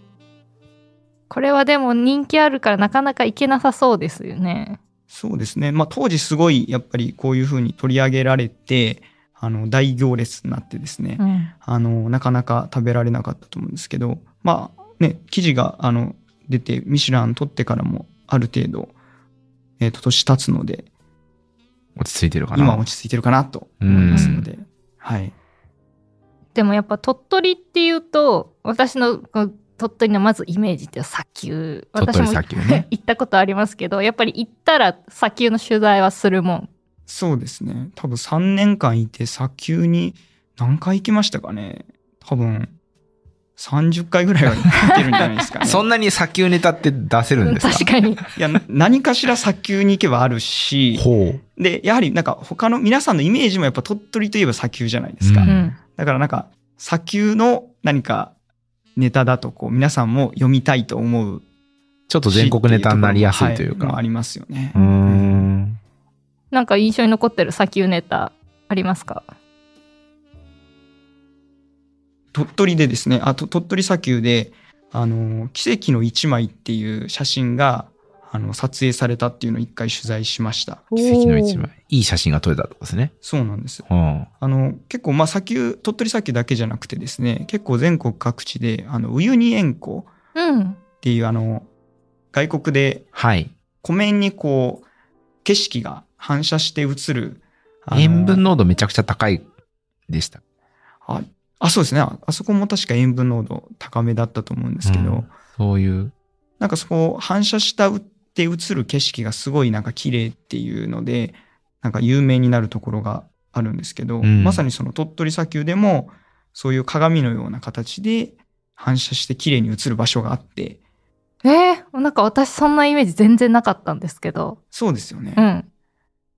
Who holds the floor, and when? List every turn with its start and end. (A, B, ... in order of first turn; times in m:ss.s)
0:01.3-0:04.8 A
0:05.1-0:18.9 B
0:11.2-0:11.5 A
0:19.8-0:20.9 B
0:22.0-0:22.8 C
0:22.5-0:25.3 B
0:23.8-0:24.5 C
0:24.1-0:24.4 A
0:26.6-0:36.7 A
0:32.0-0:32.9 C
0:37.1-0:42.7 B
0:43.6-0:45.9 B
0:45.6-0:47.9 C
0:47.4-0:48.2 A
0:48.4-0:51.1 B
0:50.9-0:51.4 C
0:51.6-0:58.3 B
0:55.2-0:55.5 C
0:55.5-0:55.8 A
0:59.0-1:01.4 B
1:02.1-1:04.0 C
1:02.3-1:05.5 B
1:04.7-1:05.8 C
1:06.5-1:09.3 A
1:12.3-1:20.9 B
1:20.9-1:21.7 A
1:21.0-1:23.1 C
1:23.2-1:23.9 B
1:23.9-1:24.3 C
1:24.4-1:30.1 B
1:30.4-1:30.8 A
1:31.0-1:31.7 B
1:32.3-1:33.1 B
1:33.2-1:33.5 C
1:33.8-1:34.9 B
1:35.4-1:38.4 B
1:37.9-1:39.5 C
1:40.1-1:40.4 C
1:41.0-1:45.3 B
1:44.8-1:46.1 C
1:46.6-2:00.8 B
1:54.2-1:54.6 C
2:01.4-2:04.6 A
2:04.7-2:05.4 B
2:05.4-2:05.7 A